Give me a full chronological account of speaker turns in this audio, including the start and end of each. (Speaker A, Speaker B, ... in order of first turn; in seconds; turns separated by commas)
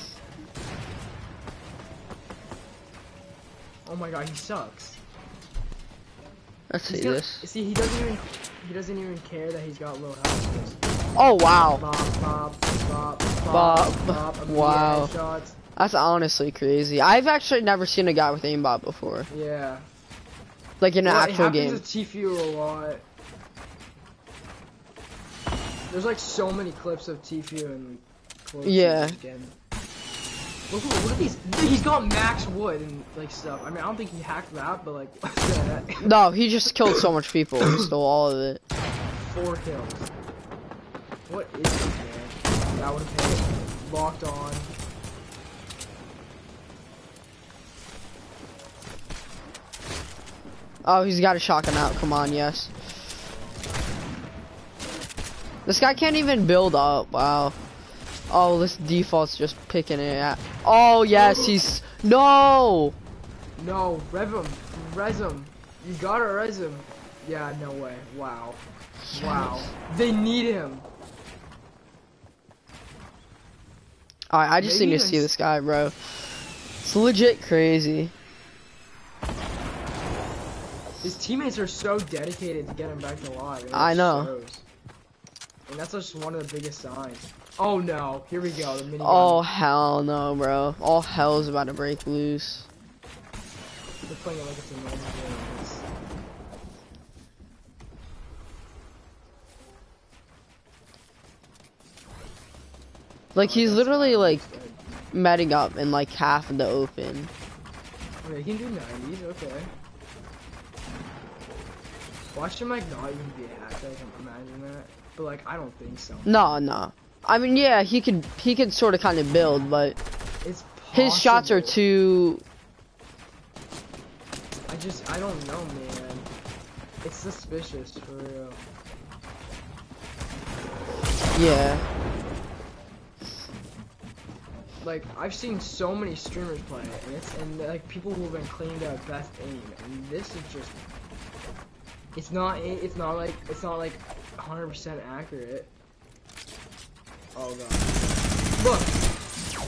Speaker A: 3.9-5.0, Speaker B: 6.7-7.5, Speaker A: 6.9-10.8, Speaker B: 11.2-11.8, Speaker A: 11.7-15.6, Speaker B: 13.5-15.1, Speaker B: 15.8-19.3, Speaker A: 19.3-19.9, Speaker B: 20.8-21.9, Speaker A: 21.0-23.0, Speaker A: 25.9-29.6, Speaker B: 28.6-29.2, Speaker A: 30.7-36.1, Speaker B: 36.0-38.6, Speaker A: 39.1-40.1, Speaker A: 41.3-44.7, Speaker B: 50.9-52.7, Speaker B: 55.7-57.6, Speaker B: 58.3-63.0, Speaker A: 61.1-61.6, Speaker A: 63.6-68.6, Speaker B: 69.1-69.7, Speaker A: 69.1-70.9, Speaker B: 74.3-76.0, Speaker A: 74.6-75.3, Speaker B: 76.8-78.1, Speaker A: 81.0-84.7, Speaker B: 83.7-84.3, Speaker A: 85.7-89.5, Speaker B: 89.0-92.7, Speaker A: 94.0-95.9, Speaker B: 103.3-104.5, Speaker A: 103.4-104.8, Speaker B: 105.1-107.3, Speaker A: 108.2-109.7, Speaker A: 112.3-116.3, Speaker B: 116.2-120.0, Speaker A: 120.4-121.8, Speaker B: 120.9-122.4, Speaker A: 124.7-126.3, Speaker A: 127.0-128.7, Speaker B: 131.3-131.9, Speaker A: 134.8-140.8, Speaker A: 142.2-145.7, Speaker A: 147.3-149.0